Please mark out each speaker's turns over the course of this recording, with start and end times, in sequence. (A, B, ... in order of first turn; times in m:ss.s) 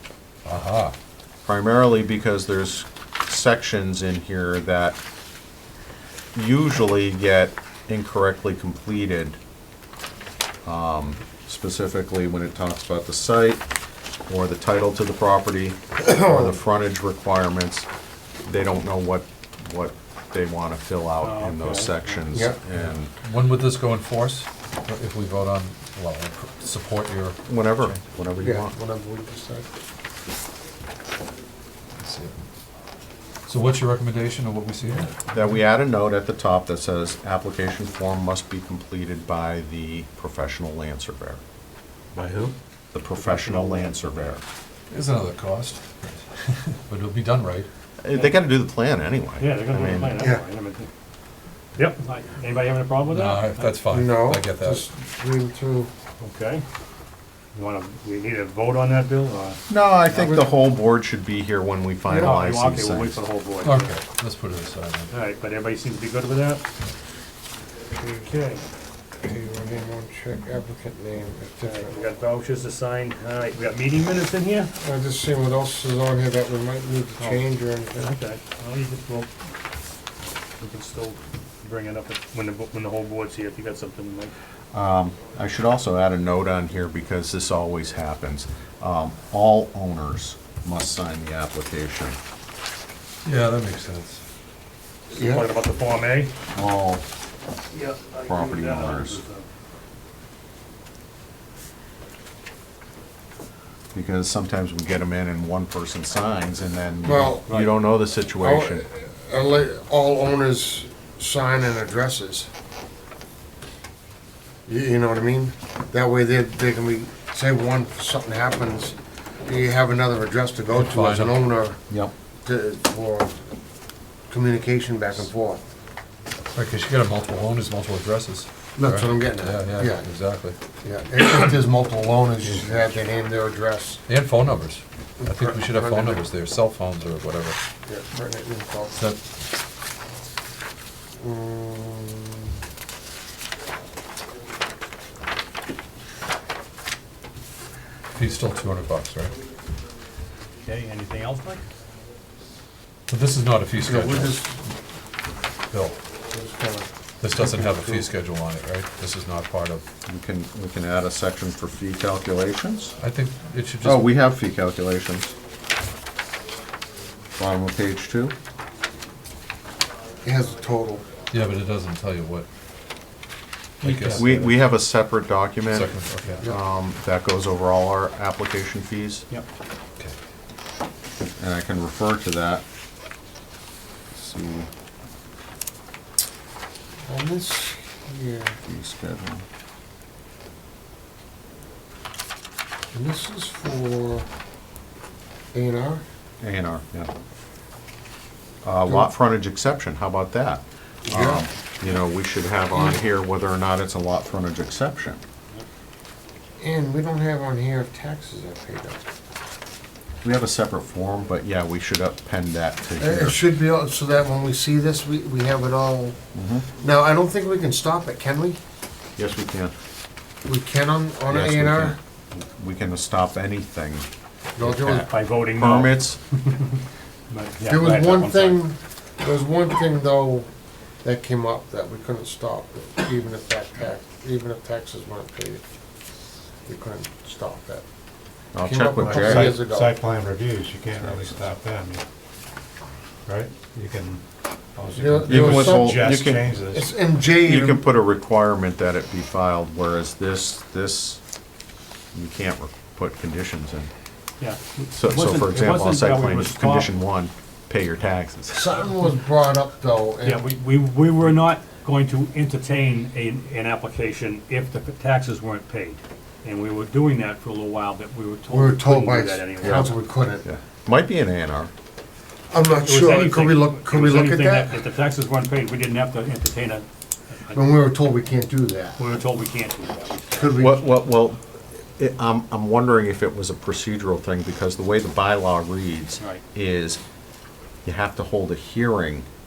0:00.4-0:01.0 A
0:01.4-0:05.0 B
0:06.4-0:09.4 B
0:10.7-0:13.6 B
0:14.3-0:17.9 B
0:16.0-0:16.6 C
0:18.5-0:23.1 B
0:21.2-0:22.2 D
0:22.3-0:22.6 C
0:23.2-0:28.0 A
0:27.5-0:28.8 B
0:28.4-0:29.7 C
0:32.0-0:32.5 A
0:33.5-0:35.1 A
0:35.3-0:41.4 B
0:42.2-0:42.5 A
0:42.2-0:42.5 E
0:42.9-0:44.4 B
0:43.1-0:44.3 D
0:44.9-0:47.7 A
0:48.0-0:50.2 B
0:48.1-0:48.4 D
0:49.4-0:50.9 D
0:51.8-0:53.7 D
0:53.1-0:54.8 A
0:53.9-0:55.9 C
0:56.2-0:56.6 D
0:57.5-0:59.6 D
0:59.7-1:03.2 B
1:00.1-1:00.5 C
1:02.1-1:02.4 C
1:02.2-1:03.9 D
1:03.6-1:05.1 A
1:05.1-1:06.6 D
1:08.0-1:08.3 C
1:08.2-1:08.6 D
1:09.2-1:11.9 C
1:11.7-1:14.7 D
1:14.8-1:18.2 C
1:17.2-1:19.3 D
1:20.6-1:24.3 D
1:24.7-1:32.2 B
1:33.2-1:34.2 A
1:35.1-1:36.3 D
1:35.1-1:35.5 C
1:36.5-1:37.0 B
1:37.7-1:39.5 D
1:38.3-1:39.2 B
1:43.9-1:48.8 B
1:47.0-1:47.6 C
1:48.4-1:52.5 C
1:54.7-2:01.8 C
2:00.7-2:01.4 A
2:02.4-2:03.4 C
2:04.3-2:05.6 C
2:06.5-2:10.6 A
2:08.8-2:10.1 C
2:10.8-2:14.0 C
2:14.1-2:17.6 A
2:15.2-2:16.2 C
2:17.9-2:19.0 C
2:18.9-2:19.2 A
2:21.2-2:22.6 C
2:28.1-2:29.4 A
2:30.6-2:31.6 D
2:33.1-2:34.5 A
2:33.9-2:34.2 B
2:34.0-2:34.4 C
2:35.7-2:36.0 A
2:36.3-2:38.1 C
2:37.2-2:39.8 A
2:40.1-2:43.0 B
2:43.0-2:44.1 A
2:43.8-2:45.4 B
2:47.4-2:48.4 B
2:50.2-2:51.1 C
2:51.3-2:52.5 A
2:53.8-2:54.6 A
2:53.8-2:54.3 D
2:53.9-2:55.9 B
2:55.7-2:56.4 A
2:56.4-2:59.3 B
3:01.4-3:02.6 B
3:04.1-3:04.7 B
3:07.1-3:08.6 C
3:08.7-3:09.4 B
3:12.9-3:14.3 C
3:15.5-3:16.0 C
3:16.4-3:17.1 B
3:18.6-3:25.2 B
3:21.1-3:21.5 C
3:22.7-3:23.0 C
3:26.6-3:29.0 C
3:30.2-3:33.4 B
3:33.0-3:36.2 C
3:36.3-3:36.7 B
3:36.8-3:38.6 C
3:39.2-3:39.7 B
3:40.4-3:42.0 C
3:41.3-3:44.1 B
3:44.6-3:45.1 C
3:44.6-3:46.2 B
3:44.9-3:46.8 D
3:47.3-3:48.6 D
3:47.6-3:50.5 C
3:51.0-3:55.6 C
3:56.7-3:57.8 C
3:58.5-3:59.6 B
3:58.6-4:00.0 C
3:59.0-4:02.0 E
4:03.3-4:06.9 E
4:05.0-4:06.2 C
4:05.3-4:06.5 B
4:06.7-4:07.8 C
4:07.4-4:11.2 B
4:12.1-4:13.9 B
4:14.4-4:16.9 D
4:14.9-4:18.7 B
4:18.5-4:20.4 C
4:20.2-4:29.9 D
4:28.5-4:30.4 C
4:29.6-4:29.9 B
4:30.4-4:31.7 B
4:32.5-4:34.8 C
4:32.7-4:36.8 D
4:37.5-4:39.1 C
4:39.0-4:40.6 D
4:40.3-4:40.8 C
4:40.6-4:47.0 B
4:47.8-4:49.3 B